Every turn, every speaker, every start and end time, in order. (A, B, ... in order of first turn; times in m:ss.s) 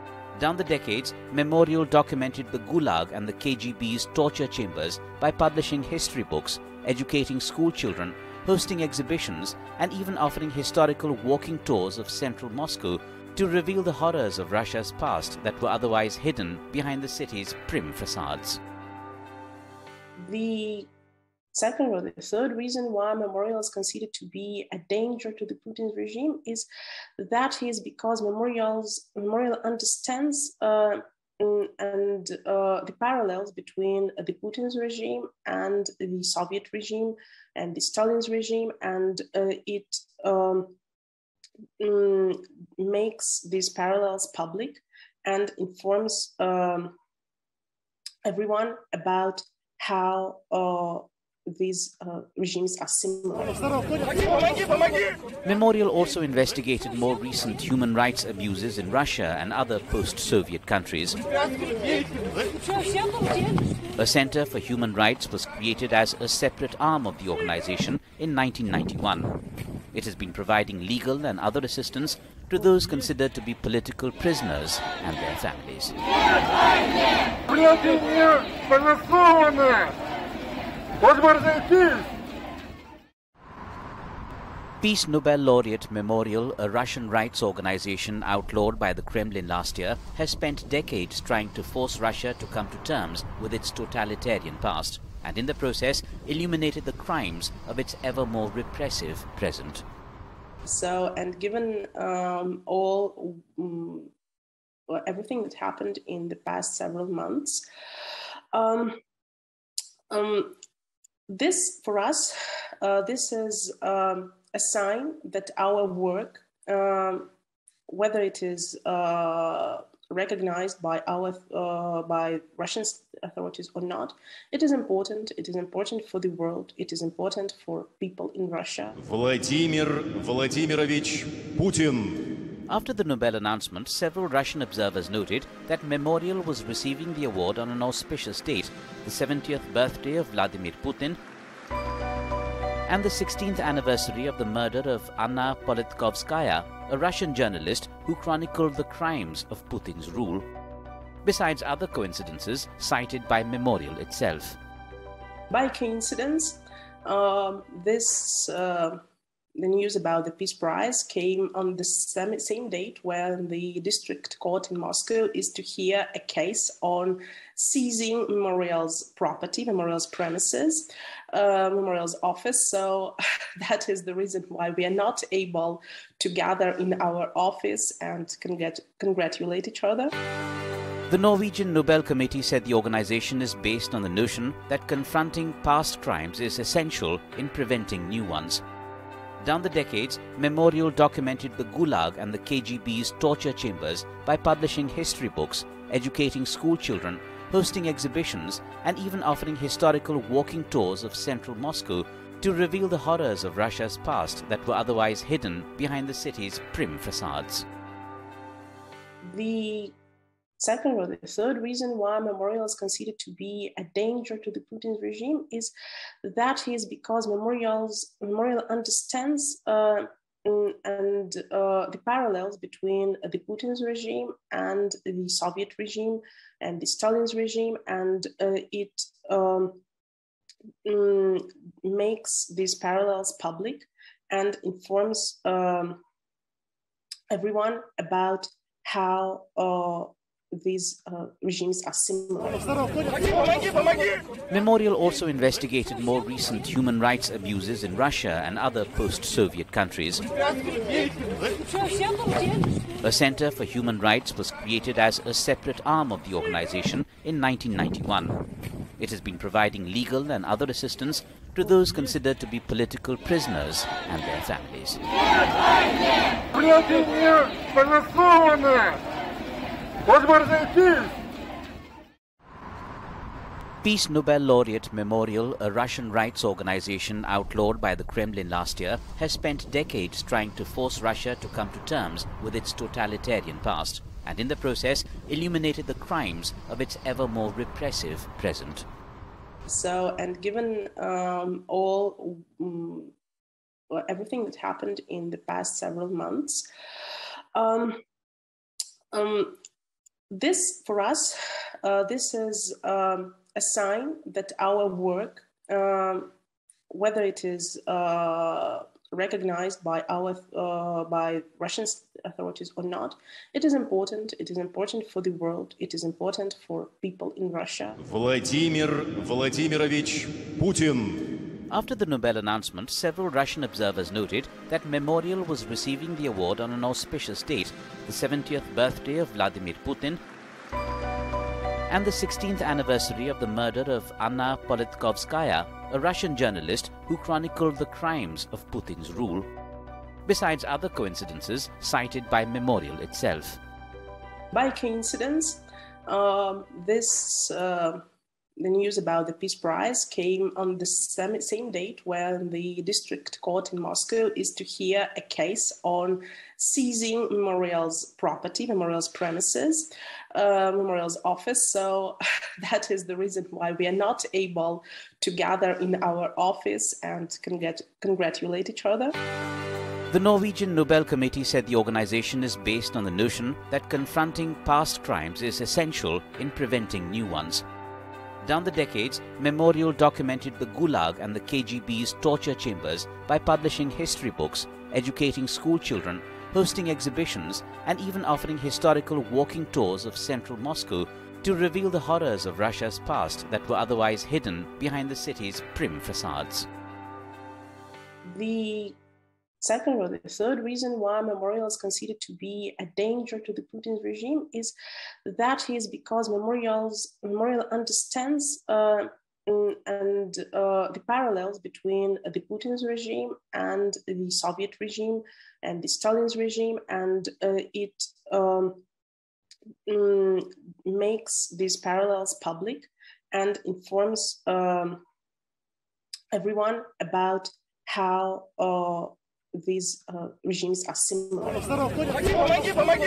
0:00.3-0:18.6 A
0:20.2-0:20.9 B
0:21.5-0:40.8 B
0:41.8-0:46.9 B
0:48.2-0:54.1 B
0:55.4-1:01.2 A
1:04.0-1:09.3 A
1:09.9-1:16.0 A
1:24.8-1:39.8 A
1:40.6-1:44.1 B
1:44.9-1:47.6 B
1:48.5-1:49.0 B
1:50.1-1:50.6 B
1:51.3-1:57.3 B
1:57.9-2:09.0 B
2:09.0-2:12.2 C
2:12.7-2:21.2 A
2:22.9-2:30.5 A
2:31.2-2:34.6 A
2:35.5-2:39.0 B
2:39.6-3:00.1 B
3:01.1-3:08.6 A
3:09.4-3:27.6 A
3:29.2-3:30.0 B
3:30.6-3:35.7 B
3:36.2-3:49.8 B
3:50.8-3:56.0 B
3:57.3-4:03.3 B
4:04.5-4:10.2 A
4:13.0-4:18.4 A
4:19.0-4:25.0 A
4:33.8-4:48.8 A
4:49.7-4:53.1 B
4:53.9-4:56.6 B
4:57.5-4:58.0 B
4:59.1-4:59.6 B
5:00.3-5:06.3 B
5:06.9-5:18.0 B
5:18.0-5:21.2 C
5:21.7-5:30.2 A
5:31.9-5:39.5 A
5:40.3-5:43.6 A
5:44.5-5:48.0 B
5:48.6-6:09.1 B
6:10.1-6:17.6 A
6:18.4-6:36.7 A
6:38.2-6:39.0 B
6:39.6-6:58.8 B
6:59.9-7:05.0 B
7:06.3-7:12.1 B